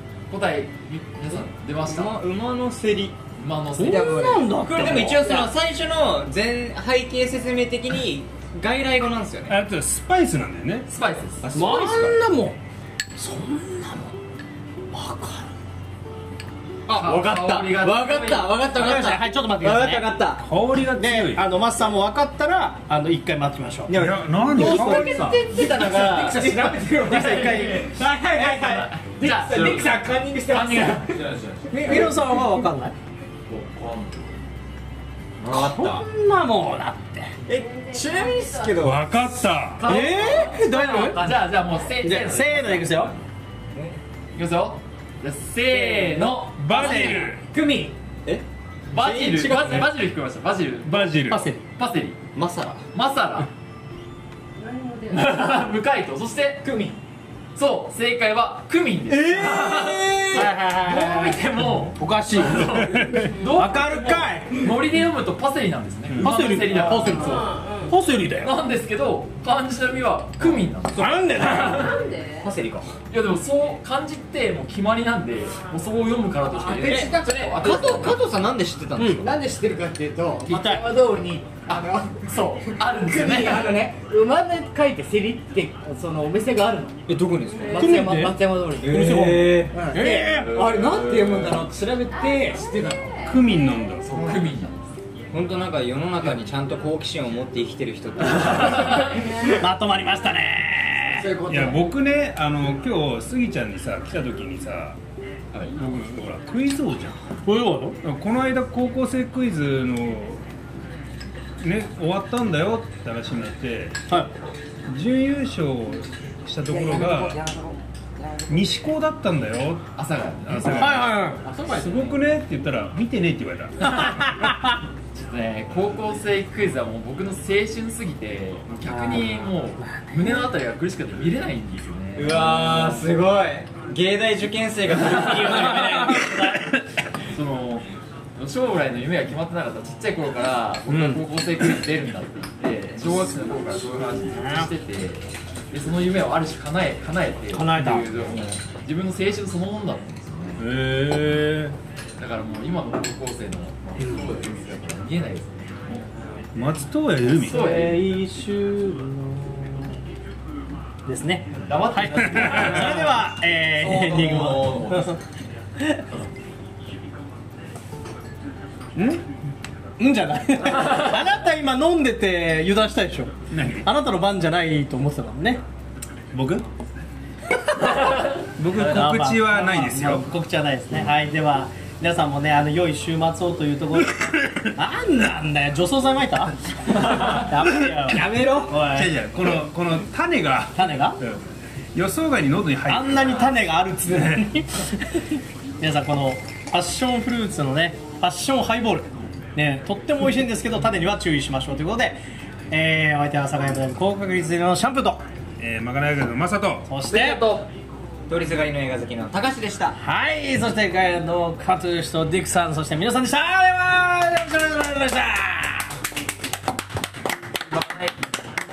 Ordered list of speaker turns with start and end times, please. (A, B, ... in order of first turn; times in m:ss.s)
0:00.3-0:02.2 A
0:01.8-0:03.2 B
0:03.4-0:05.2 A
0:03.8-0:05.5 C
0:03.8-0:09.6 B
0:09.5-0:10.9 D
0:10.9-0:11.4 A
0:11.4-0:12.2 B
0:11.5-0:12.6 C
0:13.2-0:14.1 B
0:14.9-0:15.5 C
0:16.8-0:20.4 B
0:16.9-0:18.7 A
0:18.7-0:20.1 C
0:20.4-0:21.5 D
0:20.9-0:24.0 C
0:23.9-0:27.7 B
0:23.9-0:25.3 D
0:24.5-0:25.5 C
0:24.6-0:31.2 E
0:26.6-0:31.1 A
0:31.0-0:32.4 F
0:31.7-0:32.9 C
0:31.7-0:32.0 E
0:33.5-0:34.4 F
0:35.4-0:36.1 B
0:35.5-0:37.3 C
0:37.4-0:39.4 B
0:37.5-0:38.8 G
0:38.8-0:39.9 D
0:39.8-0:41.4 E
0:39.8-0:43.2 A
0:39.8-0:41.2 C
0:42.0-0:43.1 C
0:44.3-0:47.3 A
0:45.7-0:48.0 E
0:46.5-0:47.4 D
0:48.9-0:52.2 A
0:49.0-0:49.8 C
0:49.4-0:49.8 E
0:50.8-0:51.5 D
0:51.3-0:51.6 C
0:52.3-0:52.8 B
0:52.9-0:53.5 A
0:54.6-0:55.5 G
0:55.1-0:56.7 A
0:56.6-0:57.0 E
0:57.5-1:07.6 A
0:59.1-1:01.4 C
1:01.9-1:04.6 C
1:03.0-1:03.3 D
1:03.3-1:03.6 G
1:06.2-1:08.5 C
1:07.0-1:07.9 G
1:08.4-1:11.9 A
1:10.9-1:11.9 C
1:11.5-1:12.5 G
1:12.4-1:12.9 B
1:13.1-1:18.2 A
1:16.6-1:18.0 E
1:16.8-1:19.4 B
1:19.0-1:19.2 C
1:19.2-1:27.0 E
1:20.5-1:20.8 C
1:22.5-1:23.8 A
1:27.1-1:27.9 B
1:27.6-1:27.9 G
1:27.6-1:33.2 E
1:27.7-1:30.6 C
1:28.8-1:29.7 B
1:30.0-1:31.7 F
1:32.1-1:34.0 G
1:33.2-1:34.1 D
1:34.0-1:34.9 A
1:35.3-1:39.3 B
1:38.9-1:39.6 G
1:39.5-1:41.3 C
1:41.1-1:41.8 E
1:41.4-1:45.0 D
1:45.7-1:47.2 D
1:47.4-1:48.0 C
1:48.0-1:50.4 D
1:51.6-1:54.0 D
1:54.1-1:54.3 C
1:54.9-1:57.4 D
1:56.7-1:57.7 B
1:58.5-1:59.9 D
2:00.0-2:02.2 A
2:00.5-2:04.1 D
2:00.7-2:01.4 C
2:03.9-2:04.7 C
2:05.1-2:12.9 A
2:08.8-2:10.4 C
2:12.2-2:16.3 B
2:14.9-2:16.6 C
2:17.3-2:30.6 A
2:20.9-2:21.2 C
2:24.3-2:24.7 C
2:27.5-2:28.1 C
2:30.6-2:31.7 D
2:32.2-2:36.0 A
2:34.0-2:34.7 F
2:36.5-2:37.8 D
2:37.2-2:38.0 A
2:37.3-2:40.0 C
2:41.0-2:45.2 C
2:41.6-2:43.2 A
2:42.3-2:42.8 D
2:43.7-2:45.2 F
2:45.8-2:46.0 C
2:50.0-2:55.6 C
2:53.5-2:53.9 D
2:56.3-2:56.6 D
2:58.6-3:00.3 D
2:58.7-3:09.1 C
3:04.1-3:04.7 D
3:07.6-3:13.6 D
3:10.7-3:11.2 C
3:12.9-3:22.2 C
3:14.1-3:14.5 D
3:22.7-3:25.2 C
3:25.6-3:26.9 D
3:26.9-3:27.5 C
3:27.1-3:27.7 A
3:28.3-3:30.0 B
3:30.0-3:35.9 C
3:37.7-3:38.2 A